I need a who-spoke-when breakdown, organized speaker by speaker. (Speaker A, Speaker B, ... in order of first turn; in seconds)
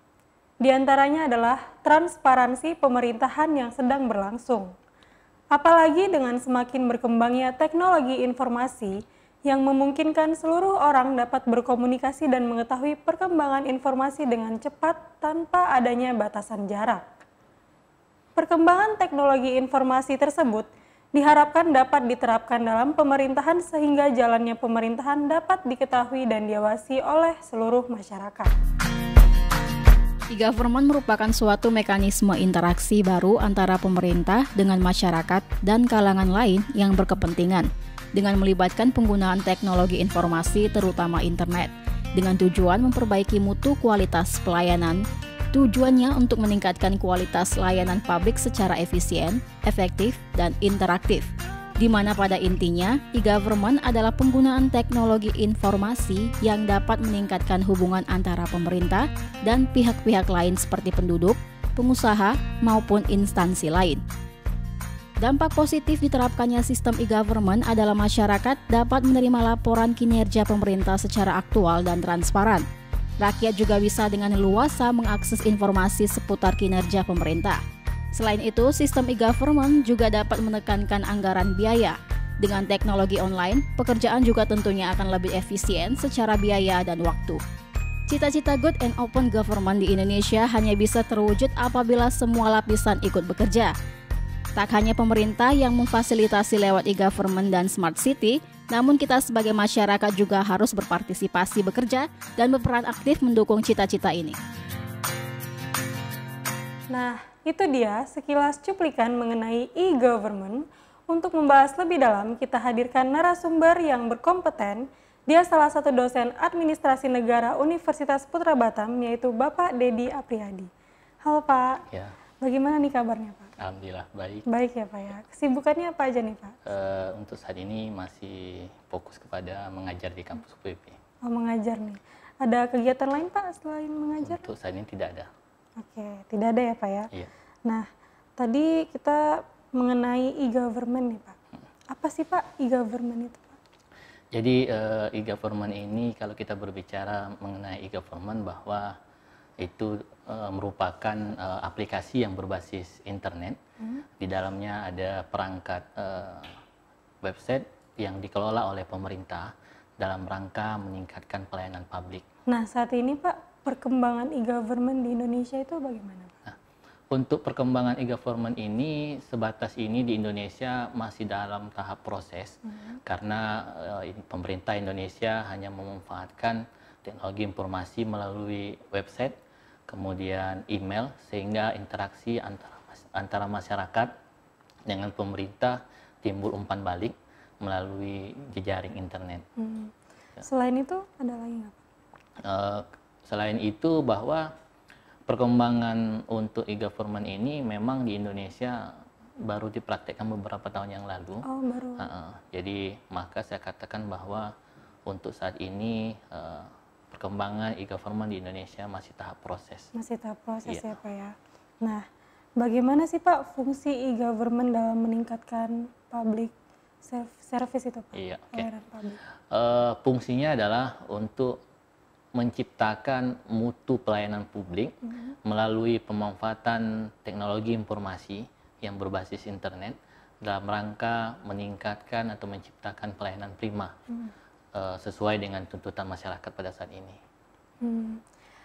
Speaker A: 0.6-4.7, 5.5-17.0, 18.4-28.5, 106.9-120.7, 121.2-121.8, 122.4-123.5, 124.5-126.6, 131.2-134.5, 135.8-137.1, 138.4-141.4, 141.9-143.6, 162.5-166.4, 189.6-191.8, 201.4-202.1, 209.9-212.0, 212.6-219.2, 237.8-238.2
Speaker B: 30.3-45.0, 45.5-64.0, 65.2-72.7, 73.2-77.6, 78.1-87.4, 88.1-93.7, 94.5-104.4
Speaker C: 123.6-124.5, 126.7-131.0, 134.2-135.3, 144.3-148.9, 149.6-153.6, 154.2-156.6, 157.2-162.2, 167.1-179.3, 179.9-184.1, 184.9-189.4, 192.4-194.5, 195.3-201.4, 202.0-204.5, 205.1-209.9, 218.1-218.7, 219.5-221.6, 222.3-233.9, 234.7-237.2